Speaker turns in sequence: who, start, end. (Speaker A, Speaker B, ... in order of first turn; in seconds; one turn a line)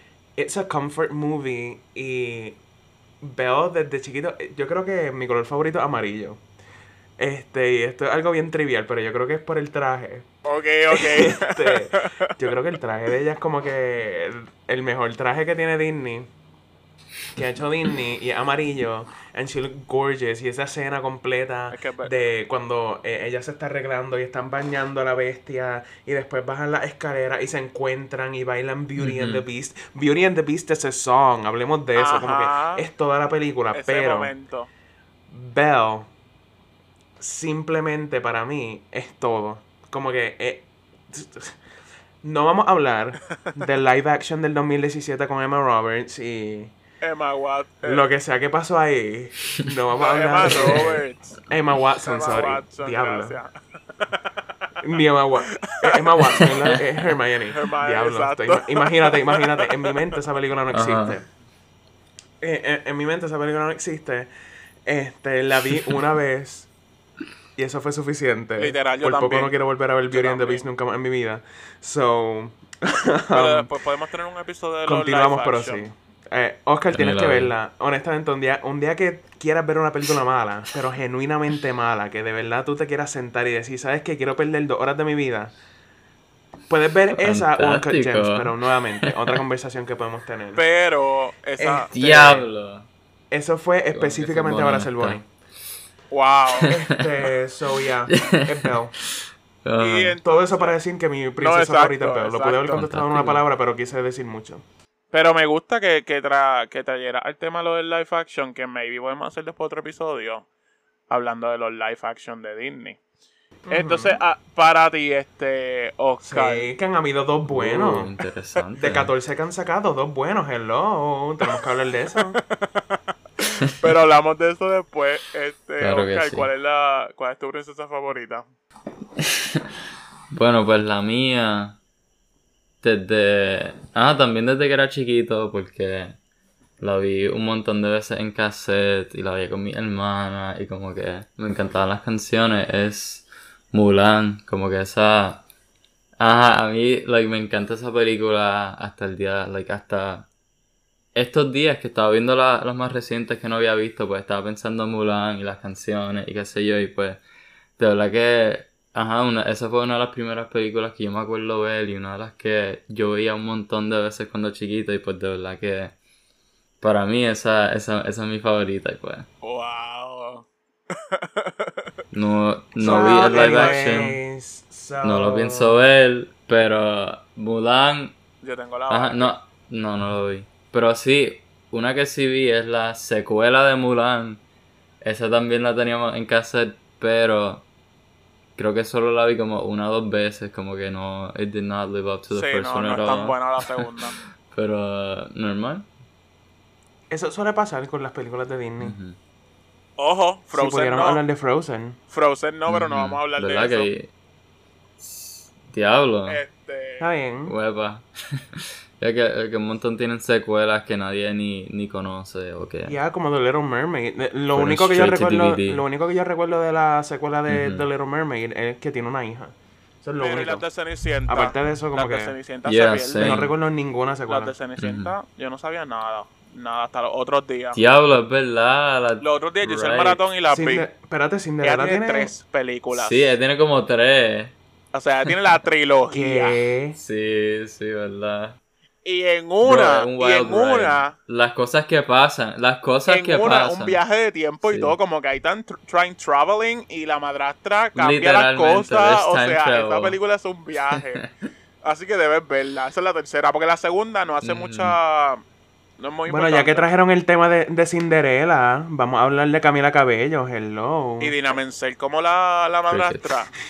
Speaker A: 0.4-2.6
Speaker A: 3.2-6.4
Speaker A: 7.2-10.3
Speaker B: 10.4-12.3
Speaker A: 10.9-16.3
Speaker A: 17.3-34.3
Speaker B: 21.7-22.1
Speaker C: 29.0-29.4
Speaker B: 32.0-32.9
Speaker B: 33.7-34.7
Speaker A: 35.3-36.1
Speaker A: 37.2-41.6
Speaker A: 42.2-46.7
Speaker B: 47.0-48.0
Speaker A: 47.9-53.4
Speaker B: 50.0-51.4
Speaker B: 52.0-54.4
Speaker A: 54.8-61.3
Speaker B: 55.5-56.2
Speaker C: 56.4-56.7
Speaker B: 57.5-60.0
Speaker C: 60.7-61.2
Speaker A: 62.4-64.3
Speaker A: 64.9-66.7
Speaker A: 67.6-73.7
Speaker B: 68.6-69.5
Speaker B: 70.1-70.7
Speaker B: 73.3-75.8
Speaker A: 74.9-85.5
Speaker C: 76.9-77.5
Speaker A: 86.7-90.6
Speaker C: 87.1-89.4
Speaker B: 90.6-91.9
Speaker A: 91.6-92.5
Speaker C: 91.9-92.9
Speaker A: 93.3-95.3
Speaker C: 93.9-95.2
Speaker B: 96.1-96.8
Speaker A: 96.7-99.0
Speaker C: 98.1-100.2
Speaker B: 99.8-100.8
Speaker A: 100.2-104.6
Speaker B: 101.4-102.8
Speaker C: 102.8-103.4
Speaker B: 105.1-110.5
Speaker B: 111.1-113.0
Speaker A: 113.7-114.2
Speaker B: 113.7-116.7
Speaker A: 116.2-118.1
Speaker C: 117.5-119.1
Speaker A: 118.8-122.4
Speaker B: 122.5-128.5
Speaker C: 125.8-126.5
Speaker C: 129.2-129.6
Speaker C: 130.3-131.8
Speaker C: 132.8-136.2
Speaker C: 136.8-145.4
Speaker C: 146.2-150.3
Speaker C: 151.2-157.2
Speaker C: 157.8-165.9
Speaker C: 166.8-169.3
Speaker B: 169.4-171.9
Speaker C: 172.1-174.2
Speaker A: 172.8-175.8
Speaker B: 172.8-174.2
Speaker C: 175.0-178.2
Speaker B: 178.4-179.4
Speaker C: 178.9-184.4
Speaker C: 185.0-187.7
Speaker C: 188.6-193.9
Speaker B: 192.3-194.2
Speaker C: 194.5-195.9
Speaker A: 197.1-198.9
Speaker C: 198.8-199.2
Speaker B: 200.0-201.2
Speaker A: 200.5-202.0
Speaker B: 202.1-203.9
Speaker C: 202.7-204.1
Speaker C: 205.0-206.4
Speaker B: 206.3-207.1
Speaker A: 207.0-207.6
Speaker C: 207.5-213.0
Speaker A: 212.9-220.6
Speaker C: 214.5-215.8
Speaker C: 217.5-217.9
Speaker B: 220.2-223.5
Speaker A: 221.3-222.4
Speaker C: 222.7-223.5
Speaker A: 223.2-224.5
Speaker B: 224.3-227.8
Speaker C: 224.8-225.1
Speaker C: 227.7-230.2
Speaker B: 229.2-230.9
Speaker A: 230.5-232.4
Speaker B: 231.6-233.3
Speaker C: 232.9-234.6
Speaker B: 234.9-236.6
Speaker A: 236.1-237.0
Speaker C: 237.0-238.6
Speaker B: 239.1-241.2
Speaker C: 239.6-244.0
Speaker B: 243.1-251.2
Speaker C: 244.6-245.0
Speaker C: 247.9-250.2
Speaker C: 250.9-251.3
Speaker B: 251.8-255.4
Speaker C: 254.4-255.0
Speaker B: 256.0-256.9
Speaker A: 256.3-261.4
Speaker B: 261.2-263.5
Speaker C: 262.9-263.4